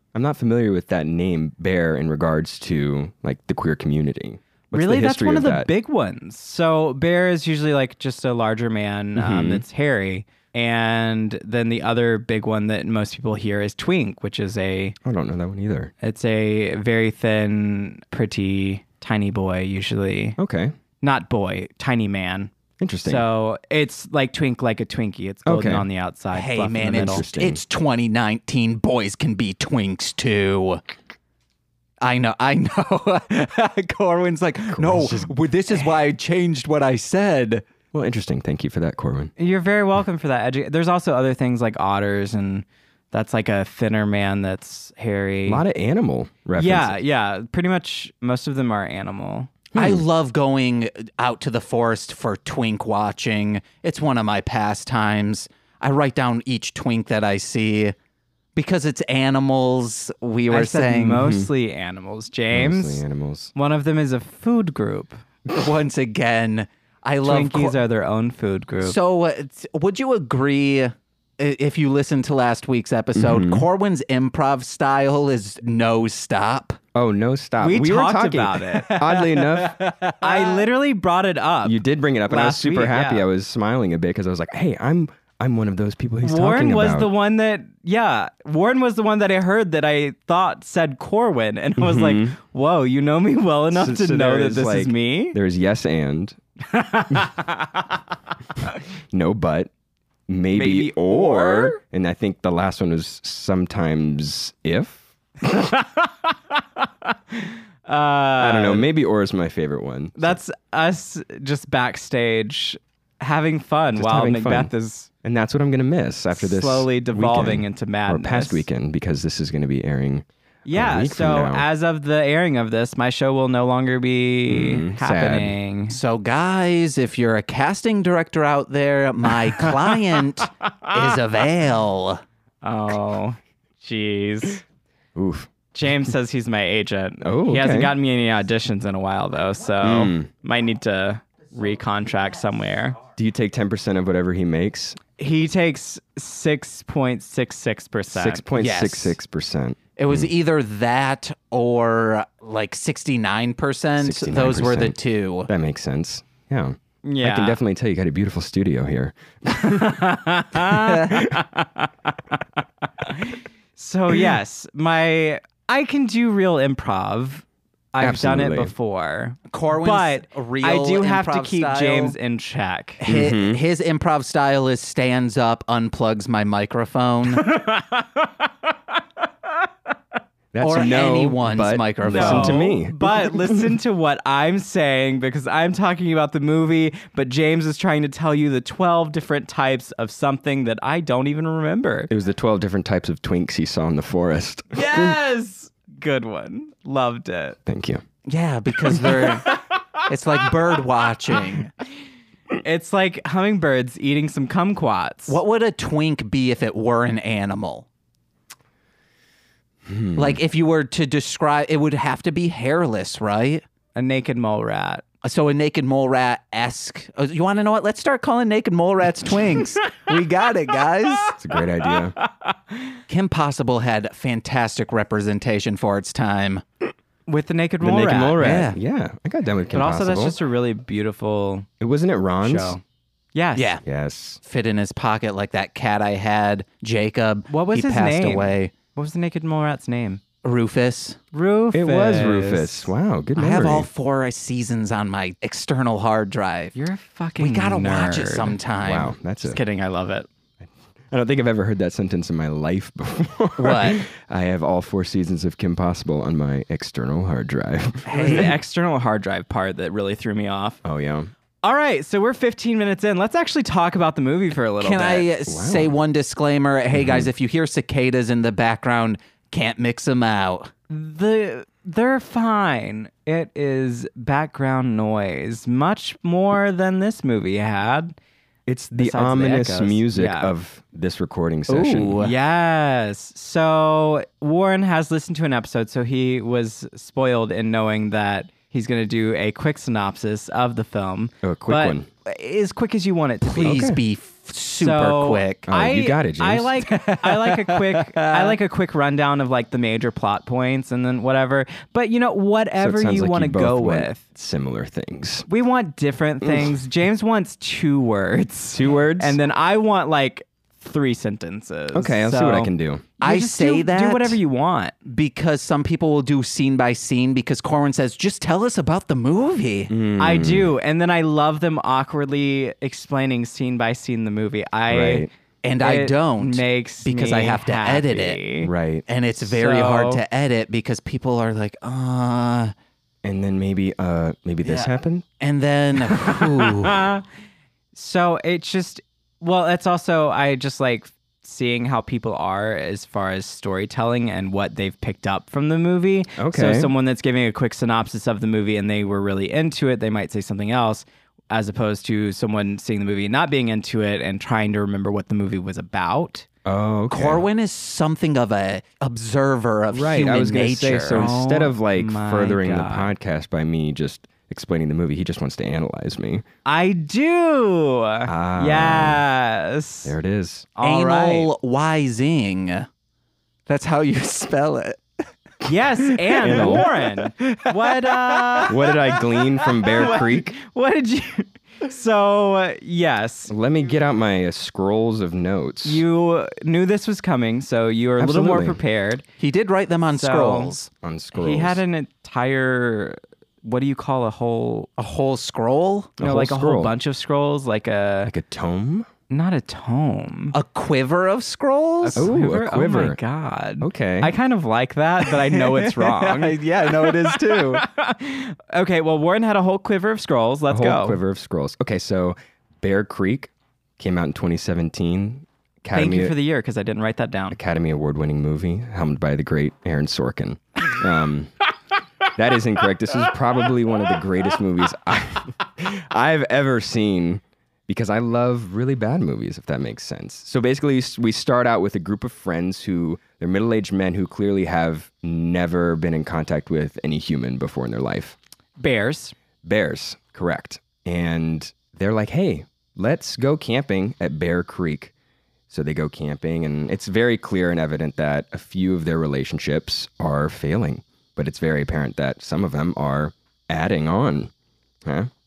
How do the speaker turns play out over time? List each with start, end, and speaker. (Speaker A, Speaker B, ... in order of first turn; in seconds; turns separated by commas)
Speaker A: 0.1-5.7, Speaker B: 4.7-15.0, Speaker A: 9.2-9.7, Speaker A: 15.1-15.9, Speaker B: 16.0-20.4, Speaker A: 20.4-20.8, Speaker B: 21.0-22.5, Speaker A: 22.8-23.2, Speaker B: 23.0-27.2, Speaker A: 25.5-25.9, Speaker C: 26.3-30.8, Speaker A: 26.9-27.6, Speaker C: 32.0-37.6, Speaker A: 34.8-35.3, Speaker A: 37.9-39.3, Speaker B: 39.4-45.6, Speaker A: 45.5-47.0, Speaker B: 46.6-49.5, Speaker A: 49.7-50.0, Speaker C: 49.8-58.0, Speaker C: 58.5-61.3, Speaker B: 60.5-63.0, Speaker A: 61.2-61.5, Speaker A: 62.5-63.5, Speaker B: 63.5-65.2, Speaker C: 65.5-67.8, Speaker B: 67.2-69.0, Speaker C: 68.8-76.8, Speaker A: 73.2-73.7, Speaker A: 77.0-79.8, Speaker B: 77.6-79.4, Speaker C: 79.7-80.6, Speaker B: 80.2-83.2, Speaker A: 81.6-87.1, Speaker B: 86.2-95.4, Speaker A: 91.8-92.4, Speaker A: 93.7-96.4, Speaker B: 96.7-97.8, Speaker A: 99.1-99.7, Speaker A: 100.3-105.0, Speaker B: 100.5-101.8, Speaker B: 105.4-108.9, Speaker A: 108.4-110.4, Speaker B: 110.2-115.1, Speaker A: 114.0-114.7, Speaker A: 115.2-121.7, Speaker B: 116.3-118.7, Speaker B: 120.7-126.0, Speaker A: 124.5-125.5, Speaker C: 125.9-132.2, Speaker B: 132.6-134.6, Speaker A: 135.2-135.5, Speaker B: 135.7-143.0, Speaker A: 137.2-137.9, Speaker A: 139.8-140.3, Speaker A: 143.2-145.0, Speaker B: 145.2-148.5, Speaker A: 148.1-150.3, Speaker C: 148.6-149.2, Speaker C: 150.0-155.5, Speaker A: 154.0-155.0, Speaker A: 155.5-160.6, Speaker B: 157.0-157.6, Speaker B: 159.5-162.4, Speaker B: 163.0-173.0, Speaker A: 168.0-168.7, Speaker C: 169.5-172.2, Speaker C: 173.0-177.5, Speaker A: 173.1-173.6, Speaker B: 177.3-178.5, Speaker A: 180.5-183.8, Speaker C: 180.6-182.6, Speaker B: 182.1-192.1, Speaker A: 192.1-195.2, Speaker B: 194.7-197.6, Speaker A: 197.7-198.0, Speaker C: 198.3-201.7, Speaker B: 199.2-199.6, Speaker B: 202.6-205.4, Speaker C: 205.3-207.9, Speaker A: 209.8-210.4, Speaker C: 210.2-213.6, Speaker B: 214.0-215.0, Speaker C: 215.2-221.3, Speaker A: 221.4-222.2, Speaker B: 222.2-222.8, Speaker C: 223.1-226.6, Speaker B: 227.3-228.4, Speaker A: 227.8-230.4, Speaker C: 228.4-228.8, Speaker B: 229.7-231.7, Speaker A: 231.8-232.8, Speaker B: 232.4-232.8, Speaker B: 233.3-233.7, Speaker C: 233.6-233.8, Speaker A: 233.8-234.4, Speaker C: 234.4-238.7, Speaker B: 237.5-240.2, Speaker C: 240.4-241.2, Speaker B: 241.3-242.9, Speaker A: 241.7-243.9, Speaker C: 243.4-246.8, Speaker B: 246.8-248.6, Speaker C: 247.4-249.1, Speaker A: 248.8-249.6, Speaker B: 249.4-250.3, Speaker A: 250.6-258.6, Speaker C: 253.6-254.1, Speaker C: 258.1-258.5, Speaker B: 258.1-260.8, Speaker A: 260.8-261.3, Speaker B: 261.6-265.3, Speaker C: 264.8-270.7, Speaker A: 265.5-265.9, Speaker A: 266.9-267.3, Speaker B: 270.9-278.2, Speaker A: 278.7-282.2, Speaker B: 279.0-280.5, Speaker C: 281.7-282.3, Speaker B: 282.2-293.9, Speaker A: 291.4-292.1, Speaker C: 293.4-295.7, Speaker A: 293.6-294.0, Speaker B: 294.8-304.2, Speaker A: 295.7-296.8, Speaker C: 296.9-298.6, Speaker A: 302.8-305.5, Speaker B: 305.5-314.9, Speaker A: 306.4-306.7, Speaker A: 308.7-309.4, Speaker A: 311.9-313.1, Speaker C: 313.2-314.4, Speaker C: 315.1-319.9, Speaker A: 319.9-320.7, Speaker B: 320.2-325.3, Speaker A: 324.9-325.3, Speaker C: 325.6-328.4, Speaker B: 325.8-328.7, Speaker A: 328.6-329.1, Speaker C: 329.1-332.7, Speaker B: 329.5-330.2, Speaker A: 333.2-335.2, Speaker C: 334.6-337.1, Speaker B: 336.2-337.2, Speaker B: 337.9-356.5, Speaker A: 346.4-346.9, Speaker A: 356.6-357.4, Speaker C: 357.1-361.3, Speaker A: 359.9-366.4, Speaker B: 361.1-363.1, Speaker B: 366.7-370.1, Speaker A: 368.3-369.2, Speaker A: 370.1-370.7, Speaker B: 370.8-371.5, Speaker C: 370.8-372.9, Speaker C: 373.7-375.0, Speaker B: 375.6-378.9, Speaker C: 376.1-378.7, Speaker A: 376.4-376.9, Speaker A: 378.7-380.6, Speaker B: 379.7-383.5, Speaker A: 383.5-386.0, Speaker B: 385.9-389.2, Speaker A: 388.2-388.8, Speaker C: 389.4-390.9, Speaker B: 390.1-390.7, Speaker A: 391.0-391.8, Speaker B: 391.4-394.9, Speaker C: 395.0-396.1, Speaker A: 396.2-396.9, Speaker B: 396.2-398.3, Speaker A: 398.3-399.1, Speaker B: 399.3-400.6, Speaker C: 400.5-402.3, Speaker B: 402.0-411.2, Speaker A: 402.2-403.2, Speaker A: 403.8-404.3, Speaker C: 405.3-407.8, Speaker A: 410.7-416.4, Speaker B: 415.9-417.6, Speaker A: 417.5-421.5, Speaker A: 422.3-438.4, Speaker B: 438.8-439.4, Speaker A: 439.6-445.1, Speaker A: 445.7-454.5, Speaker A: 455.1-455.3